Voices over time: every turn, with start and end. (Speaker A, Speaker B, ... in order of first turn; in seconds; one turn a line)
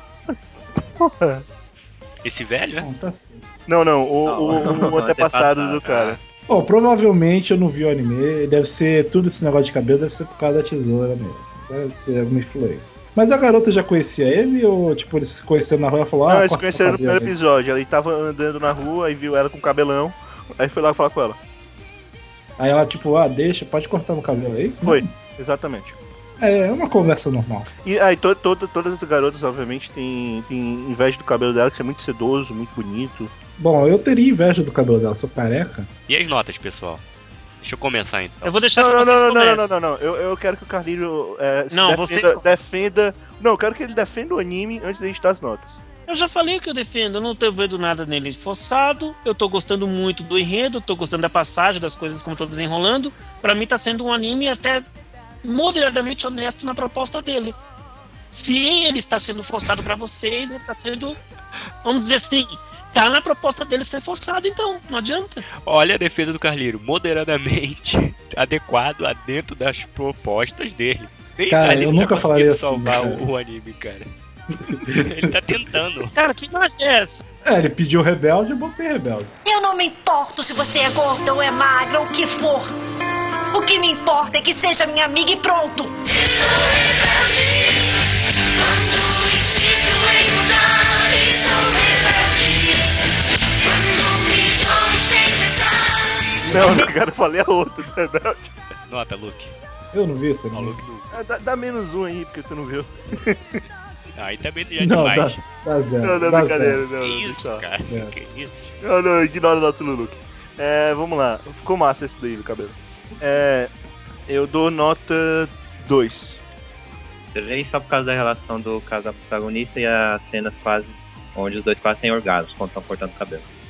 Speaker A: 0.3-1.4
Speaker B: 2.2-2.9
Speaker C: 2.8-3.5
Speaker A: 3.7-6.2
Speaker D: 4.3-6.1
Speaker C: 6.5-17.4
Speaker A: 16.3-21.4
Speaker C: 22.6-25.1
Speaker A: 24.8-26.0
Speaker C: 26.4-27.7
Speaker A: 27.8-33.3
Speaker C: 33.6-35.9
Speaker B: 36.1-37.0
Speaker B: 37.6-38.5
Speaker E: 38.4-39.7
Speaker A: 38.8-45.8
Speaker E: 41.7-42.4
Speaker E: 46.1-54.8
Speaker E: 55.4-57.6
Speaker E: 58.3-61.2
Speaker E: 61.8-65.4
Speaker B: 65.7-74.1
Speaker C: 71.5-73.2
Speaker C: 74.6-75.3
Speaker B: 74.7-76.1
Speaker E: 76.2-77.2
Speaker C: 77.4-79.3
Speaker F: 79.5-82.8
Speaker F: 83.5-86.0
Speaker F: 89.9-90.4
Speaker F: 91.2-91.6
Speaker F: 94.0-95.6
Speaker A: 96.5-98.5
Speaker C: 96.5-96.8
Speaker B: 98.9-99.5
Speaker C: 99.9-100.8
Speaker B: 100.5-101.1
Speaker A: 101.1-103.6
Speaker B: 104.2-105.4
Speaker C: 104.8-106.8
Speaker A: 106.0-107.7
Speaker B: 107.0-108.8
Speaker C: 107.9-108.1
Speaker A: 108.8-113.7
Speaker A: 114.3-116.4
Speaker D: 117.3-123.5